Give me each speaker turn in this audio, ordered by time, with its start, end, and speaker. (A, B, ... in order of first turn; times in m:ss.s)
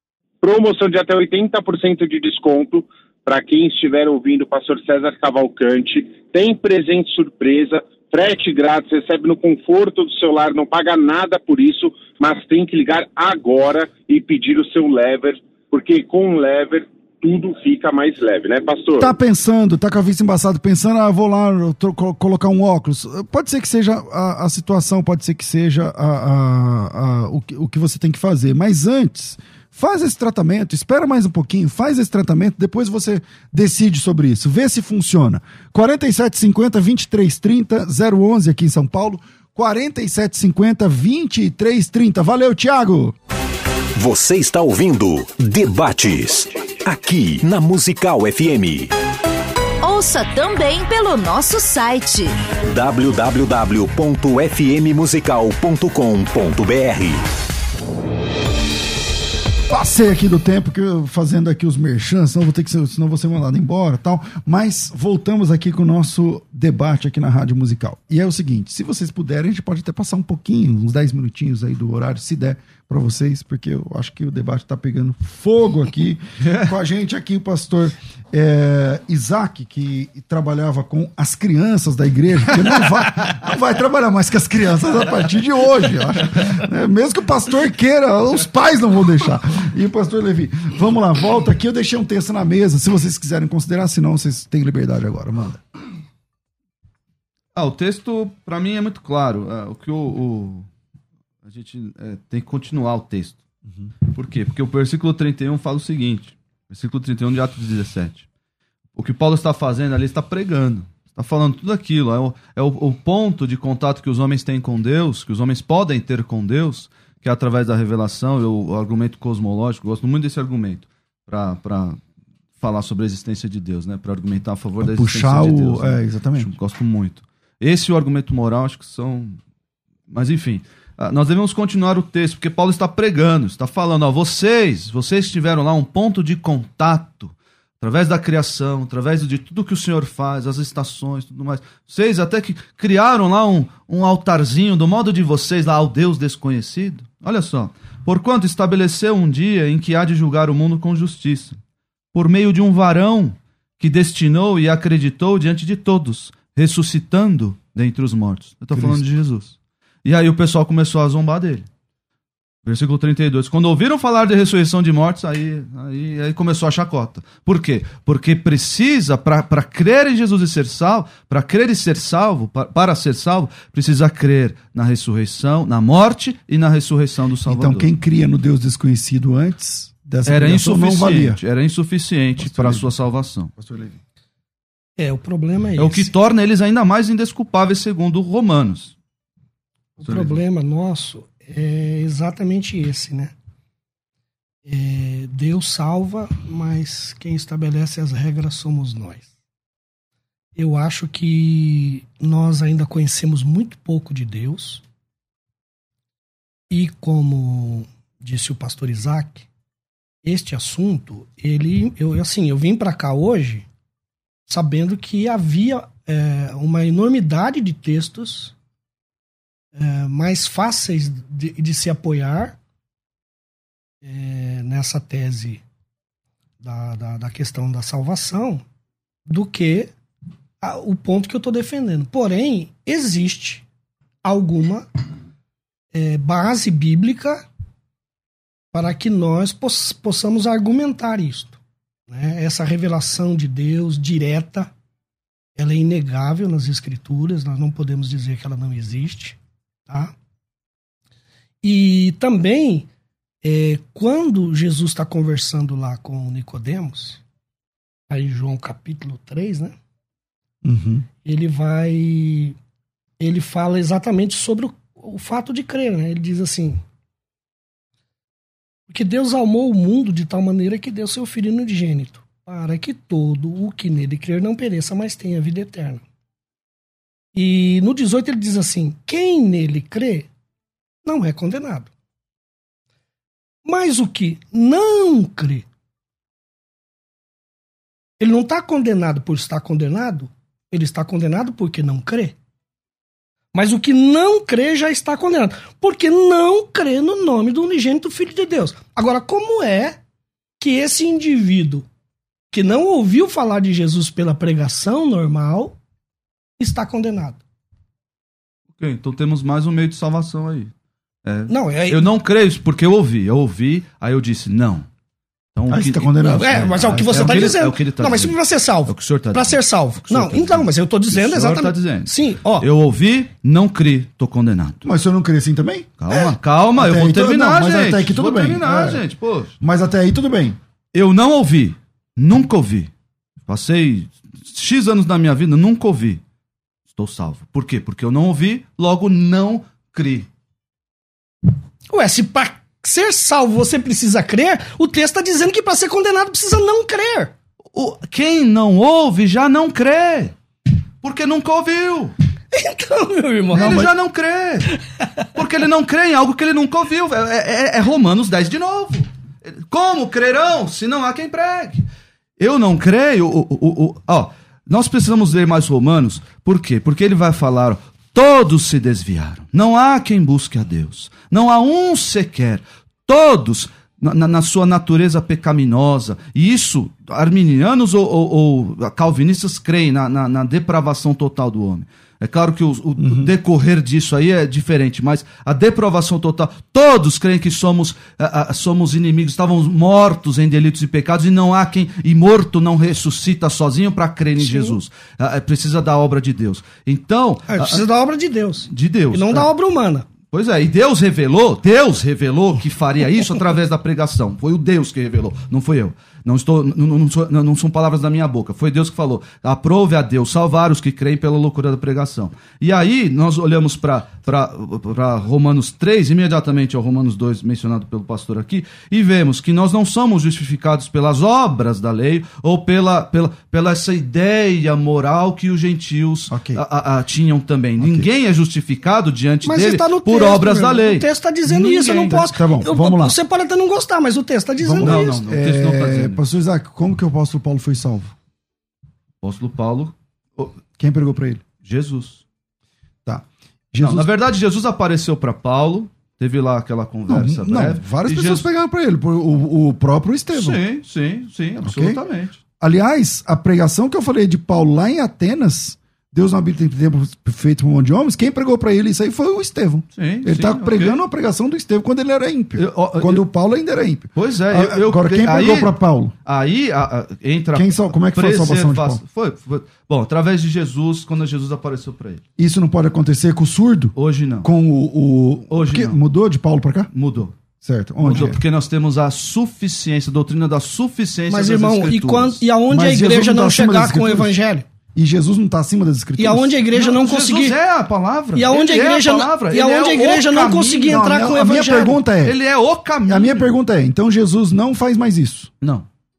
0:00.4-0:19.1 A
0:19.0-0:43.2 B
0:44.0-0:48.9 C
0:49.8-0:52.4 D
0:52.6-0:57.2 C
0:59.7-1:35.6 B
1:37.5-1:40.7 E
1:41.4-1:43.4 E
1:44.1-1:48.3 E
1:49.0-2:02.0 E
2:02.6-2:09.4 E
2:04.8-2:06.5 B
2:10.1-2:31.6 E
2:32.1-2:41.7 E
2:38.7-2:39.0 B
2:42.6-2:57.9 E
2:57.5-3:01.4 B
3:00.3-3:03.5 E
3:02.4-3:03.0 B
3:03.6-3:04.0 B
3:05.0-3:06.1 F
3:05.8-3:08.9 E
3:10.0-3:13.3 F
3:10.1-3:10.4 E
3:14.6-3:19.3 F
3:20.6-3:24.8 F
3:26.7-3:29.5 F
3:30.2-3:33.7 F
3:34.5-3:38.5 F
3:39.8-3:42.6 F
3:44.0-3:45.6 F
3:46.6-3:48.6 F
3:49.3-3:49.9 F
3:50.6-3:53.6 F
3:54.2-3:54.9 F
3:55.9-3:57.5 F
3:58.7-4:04.7 F
4:05.6-4:10.1 F
4:11.6-4:12.9 F
4:13.4-4:17.2 F
4:18.1-4:19.8 F
4:20.6-4:21.1 B
4:21.2-4:22.6 F
4:23.2-4:26.8 F
4:28.9-4:36.0 F
4:37.4-4:40.3 F
4:41.0-4:41.9 F
4:43.7-4:45.7 F
4:48.2-4:52.4 F
4:53.5-5:00.0 F
5:00.6-5:01.9 F
5:02.5-5:05.8 F
5:06.6-5:07.4 F
5:08.8-5:10.7 E
5:11.2-5:14.9 E
5:11.5-5:12.1 F
5:15.6-5:24.8 E
5:15.7-5:17.5 B
5:16.2-5:22.7 F
5:24.8-5:26.1 B
5:26.0-5:29.5 E
5:26.8-5:29.0 B
5:29.6-5:30.6 B
5:30.9-5:32.9 E
5:33.5-5:36.2 E
5:36.9-5:40.3 E
5:41.9-5:47.3 F
5:47.7-5:50.4 E
5:51.0-5:52.1 E
5:52.5-5:53.9 F
5:53.5-5:54.7 E
5:53.6-5:53.9 B
5:55.3-6:01.9 E
6:02.4-6:37.9 E
6:23.0-6:23.3 B
6:34.4-6:34.8 F
6:37.5-6:40.1 F
6:38.7-6:39.5 E
6:40.3-7:12.2 E
7:06.3-7:06.6 B
7:07.8-7:08.1 B
7:09.5-7:15.2 F
7:12.0-7:13.2 B
7:14.6-7:18.1 B
7:14.8-7:16.2 E
7:19.2-7:20.6 E
7:20.8-7:21.4 B
7:21.6-7:22.2 E
7:23.0-7:24.1 B
7:23.8-7:28.5 E
7:27.1-7:30.6 B
7:30.3-7:32.4 E
7:31.6-7:32.0 B
7:32.6-7:46.1 B
7:40.0-7:41.0 E
7:42.6-7:43.2 E
7:44.1-7:52.2 E
7:47.5-7:49.0 B
7:52.4-7:56.9 B
7:54.0-7:54.5 E
7:55.5-7:56.0 E
7:56.9-7:57.4 E
7:57.6-7:58.4 B
7:58.0-8:02.4 E
8:01.3-8:04.7 F
8:02.7-8:04.4 B
8:04.9-8:06.6 B
8:06.2-8:07.6 F
8:06.7-8:11.1 E
8:08.4-8:12.0 F
8:10.9-8:12.4 B
8:12.2-8:13.5 E
8:13.1-8:15.5 B
8:15.6-8:15.9 E